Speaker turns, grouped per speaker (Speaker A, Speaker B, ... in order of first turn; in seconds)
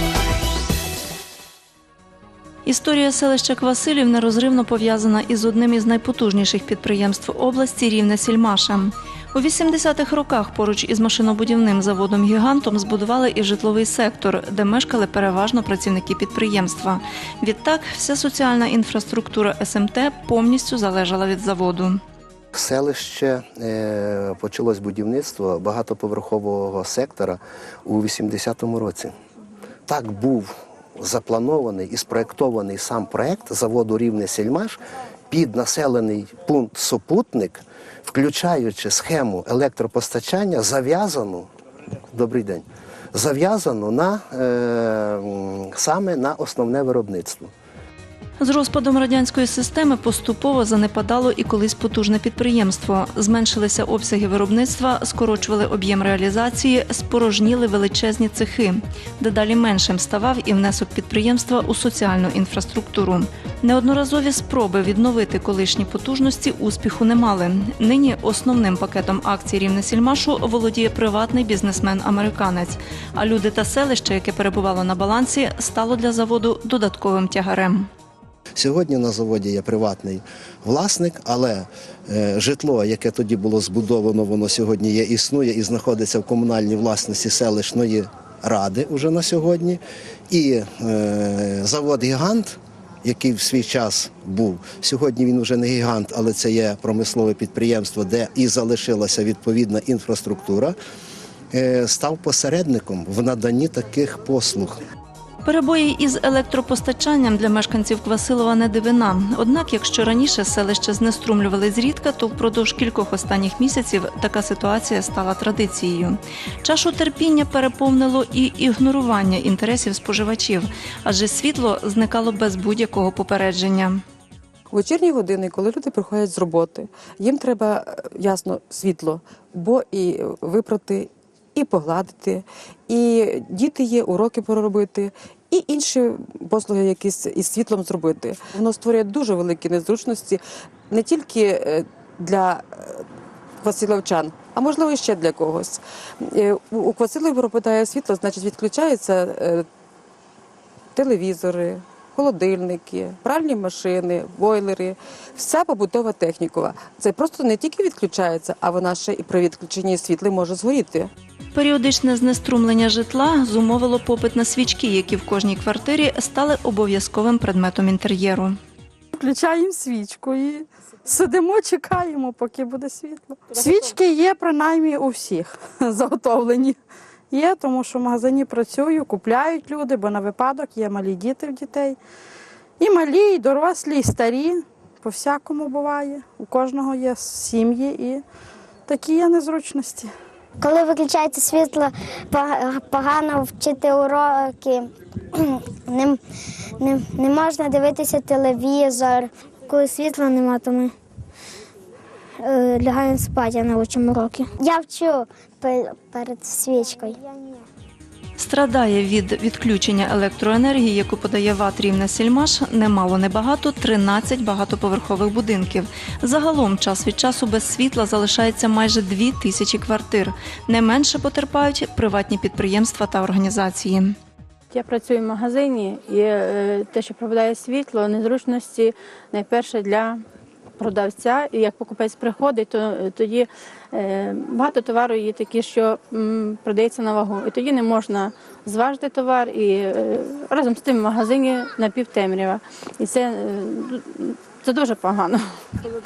Speaker A: 2.6-22.0, 48.4-77.9, 105.4-124.0, 161.5-168.6, 208.4-224.2
Speaker B: 22.5-29.1, 29.9-34.8, 35.3-41.5, 42.1-47.5, 78.5-100.7, 101.5-104.8
Speaker C: 124.7-143.0, 143.6-149.7, 150.9-161.1
Speaker D: 169.1-176.8, 177.3-182.0, 182.8-188.2, 188.9-190.1
Speaker E: 190.6-196.2, 196.8-200.9, 202.4-207.6
Speaker F: 224.7-230.2, 230.8-245.4